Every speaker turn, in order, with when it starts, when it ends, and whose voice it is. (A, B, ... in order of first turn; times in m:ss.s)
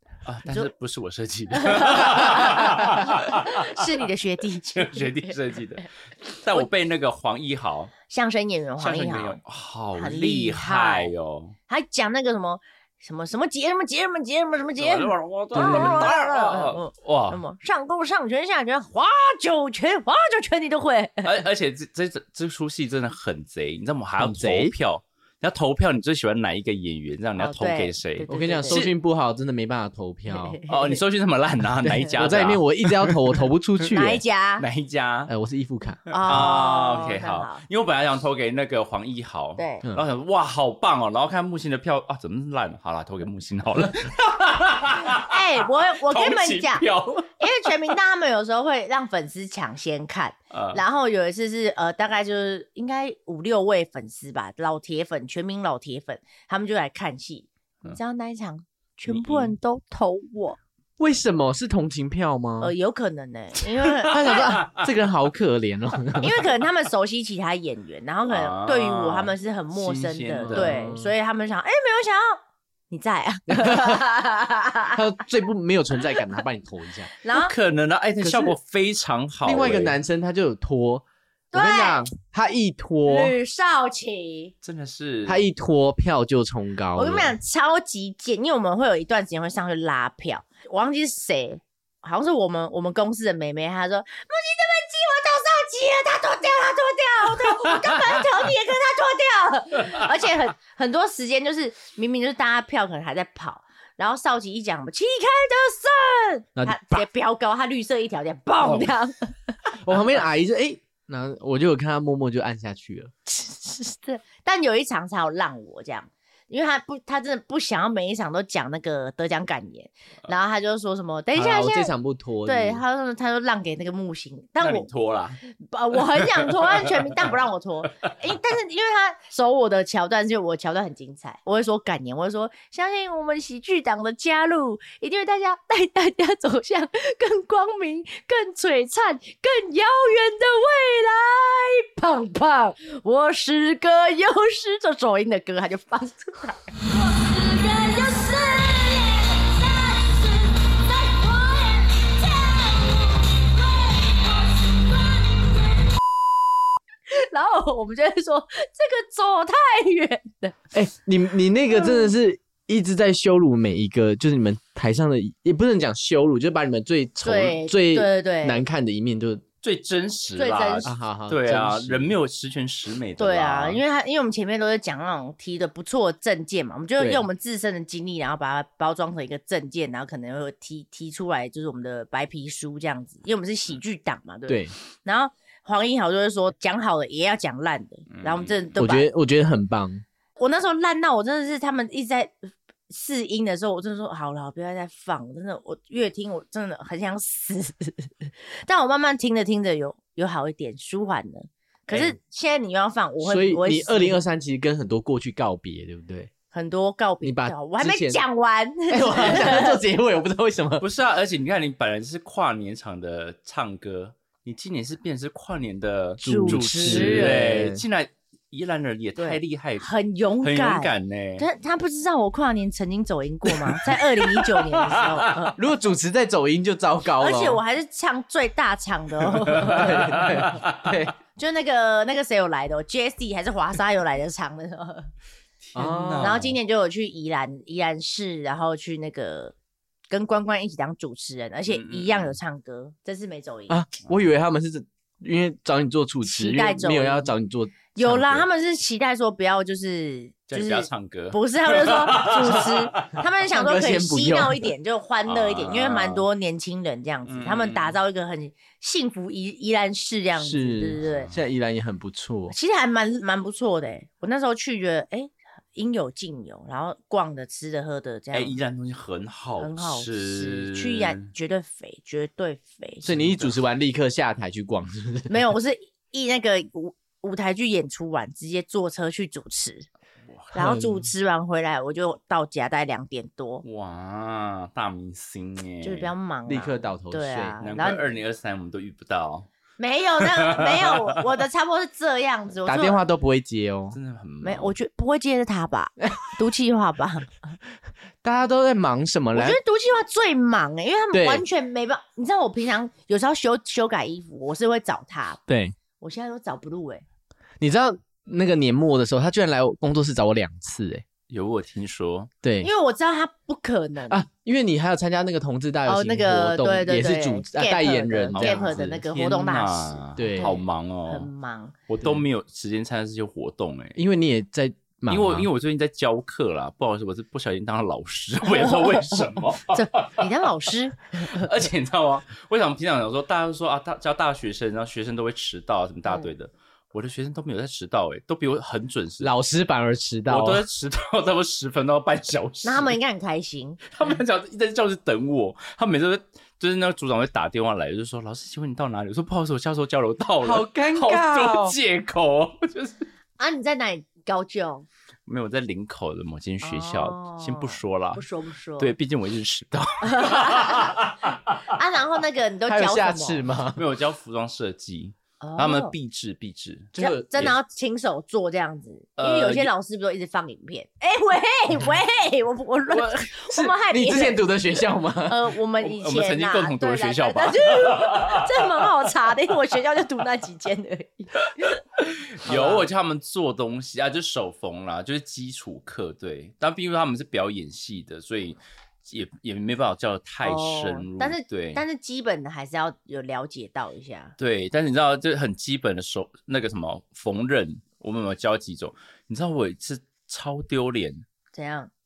0:00.2-0:03.8 A
0:01.5-0:05.3 B
0:04.8-0:07.9 A
0:08.1-0:09.4 B
0:08.8-0:11.5 A
0:10.0-0:11.1 B
0:11.7-0:21.3 B
0:14.8-0:17.4 A
0:15.5-0:16.1 C
0:21.2-0:28.9 A
0:24.2-0:24.7 C
0:27.4-0:28.8 B
0:28.3-0:30.6 C
0:30.3-0:31.0 B
0:30.7-0:33.4 A
0:32.1-0:34.2 C
0:33.9-0:34.6 B
0:34.6-0:35.3 A
0:35.3-0:36.5 C
0:36.1-0:37.6 B
0:36.1-0:47.3 A
0:39.6-0:39.8 B
0:45.1-0:46.9 B
0:47.4-1:00.6 B
0:50.5-0:50.8 A
0:59.1-0:59.5 A
1:01.0-1:02.7 C
1:02.6-1:04.5 B
1:04.1-1:06.4 C
1:04.1-1:04.8 A
1:06.2-1:15.0 B
1:08.3-1:10.7 A
1:10.5-1:11.1 C
1:13.5-1:14.0 C
1:14.9-1:17.1 C
1:17.2-1:17.5 B
1:17.3-1:20.0 A
1:18.2-1:18.6 C
1:19.4-1:23.3 C
1:21.5-1:22.1 B
1:23.0-1:24.5 B
1:24.6-1:25.4 A
1:25.2-1:27.4 C
1:26.9-1:49.6 B
1:46.6-1:47.0 C
1:49.8-1:53.1 C
1:53.3-2:01.9 B
2:01.3-2:02.8 C
2:02.4-2:04.9 B
2:04.6-2:05.4 A
2:05.5-2:33.2 B
2:06.4-2:07.0 A
2:33.7-2:34.5 B
2:37.1-2:40.6 B
2:40.7-2:49.4 C
2:41.8-2:42.1 B
2:47.2-2:48.6 B
2:49.6-2:53.8 A
2:50.4-2:50.9 B
2:50.8-2:52.1 C
2:53.2-3:09.1 B
2:57.0-2:57.2 C
3:04.5-3:04.7 C
3:08.1-3:08.6 A
3:08.8-3:10.0 C
3:10.4-3:24.2 B
3:23.2-3:26.3 C
3:26.5-3:29.8 B
3:27.2-3:28.2 C
3:28.9-3:30.8 C
3:30.8-3:39.9 A
3:36.2-3:37.8 C
3:36.2-3:37.5 B
3:39.2-3:45.6 B
3:40.4-3:41.4 A
3:44.9-3:45.3 A
3:45.5-3:47.6 C
3:47.2-3:50.4 B
3:49.5-3:51.0 A
3:49.6-3:51.1 C
3:51.4-3:55.1 B
3:55.6-3:56.5 A
3:55.7-3:56.5 C
3:56.2-3:59.5 B
4:00.1-4:03.8 B
4:01.7-4:02.4 A
4:03.7-4:08.4 C
4:06.2-4:07.3 B
4:07.9-4:21.3 B
4:10.5-4:13.2 A
4:13.5-4:14.7 C
4:15.2-4:16.2 A
4:17.2-4:18.0 A
4:20.4-4:22.5 C
4:21.0-4:21.3 A
4:22.5-4:28.6 B
4:28.3-4:31.3 A
4:29.6-4:33.2 B
4:33.0-4:35.4 C
4:33.1-4:33.5 A
4:35.3-4:39.9 B
4:40.3-4:40.7 A
4:40.5-4:43.6 B
4:40.6-4:41.0 C
4:43.6-4:46.1 A
4:45.8-4:48.0 B
4:46.5-4:47.6 C
4:47.6-4:49.5 A
4:49.8-4:53.0 B
4:50.2-4:51.2 A
4:52.6-4:54.0 C
4:53.9-4:54.7 A
4:54.4-4:57.6 B
4:58.2-4:59.6 C
4:59.3-5:05.4 B
5:01.1-5:01.4 C
5:05.5-5:05.8 C
5:06.0-5:07.0 B
5:07.6-5:11.0 C
5:11.3-5:12.3 A
5:12.4-5:12.7 C
5:12.6-5:14.2 B
5:14.1-5:19.0 C
5:15.8-5:21.8 B
5:18.3-5:21.3 A
5:20.2-5:20.5 C
5:21.9-5:24.0 A
5:24.0-5:25.5 C
5:25.1-5:30.7 A
5:28.5-5:31.5 B
5:31.2-5:39.3 A
5:39.2-5:40.6 C
5:40.3-5:43.0 A
5:42.6-5:43.8 B
5:43.9-5:53.1 A
5:50.4-5:51.8 C
5:53.4-5:54.8 B
5:55.2-5:58.2 A
5:56.6-5:58.9 B
5:58.8-6:01.6 A
6:00.0-6:01.0 B
6:01.7-6:03.4 B
6:02.7-6:03.8 C
6:03.7-6:07.6 A
6:05.4-6:05.9 B
6:07.0-6:07.4 C
6:07.0-6:14.4 B
6:09.2-6:09.7 A
6:12.9-6:13.3 A
6:13.5-6:15.5 C
6:15.2-6:21.8 B
6:15.8-6:18.6 A
6:21.6-6:31.8 A
6:22.4-6:22.8 B
6:30.4-6:34.3 B
6:34.4-6:41.2 A
6:41.5-6:41.9 B